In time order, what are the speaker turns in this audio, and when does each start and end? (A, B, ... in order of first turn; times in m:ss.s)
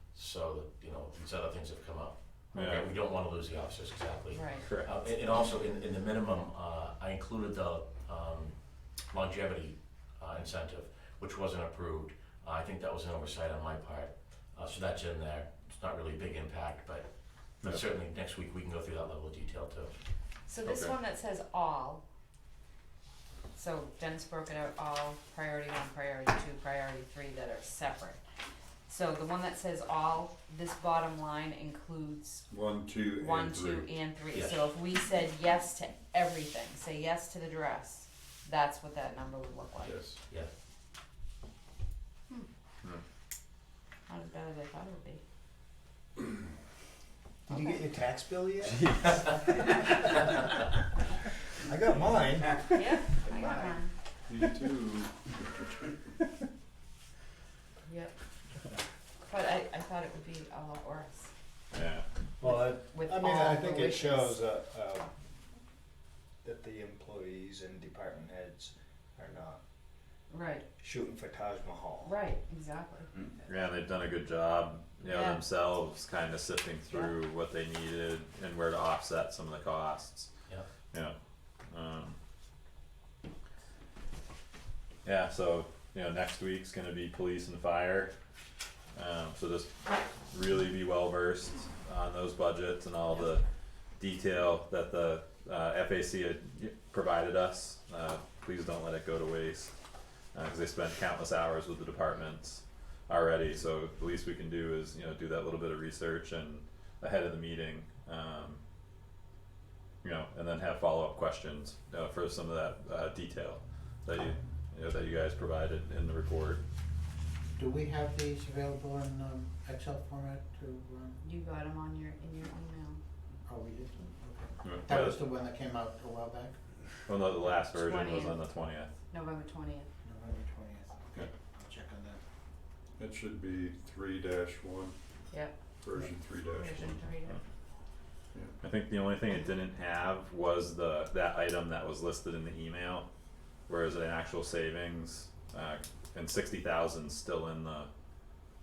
0:00.1-0:08.6 A
0:02.5-0:02.9 B
0:04.3-0:04.6 C
0:04.6-0:04.9 B
0:09.1-0:17.1 A
0:17.6-0:19.9 A
0:20.5-0:22.0 C
0:20.6-0:20.9 B
0:23.5-0:28.2 C
0:28.9-0:32.5 C
0:32.5-0:33.9 D
0:33.2-0:40.1 C
0:34.3-0:34.7 A
0:39.8-0:40.2 D
0:44.1-0:45.2 C
0:47.5-0:48.9 E
0:48.8-0:49.3 B
0:51.7-0:53.8 E
0:52.8-0:53.9 C
0:54.3-0:55.3 D
0:57.9-0:58.1 C
0:59.2-1:01.3 C
1:01.7-1:02.0 B
1:02.4-1:05.2 E
1:02.4-1:04.4 C
1:06.4-1:09.6 E
1:10.3-1:10.7 C
1:10.8-1:12.2 E
1:12.0-1:13.1 C
1:13.4-1:20.3 B
1:15.1-1:15.4 C
1:21.7-1:22.2 B
1:25.0-1:28.1 B
1:29.0-1:29.7 B
1:30.3-1:33.4 B
1:34.0-1:39.7 B
1:40.3-1:48.6 B
1:50.0-1:56.6 B
1:57.6-2:01.2 F
2:01.2-2:03.0 C
2:03.5-2:06.5 F
2:04.6-2:05.2 B
2:07.1-2:08.9 B
2:07.6-2:08.4 C
2:09.1-2:09.9 C
2:10.0-2:12.2 F
2:13.0-2:15.0 D
2:15.8-2:17.0 D
2:16.5-2:17.4 C
2:18.6-2:23.1 B
2:23.7-2:27.9 B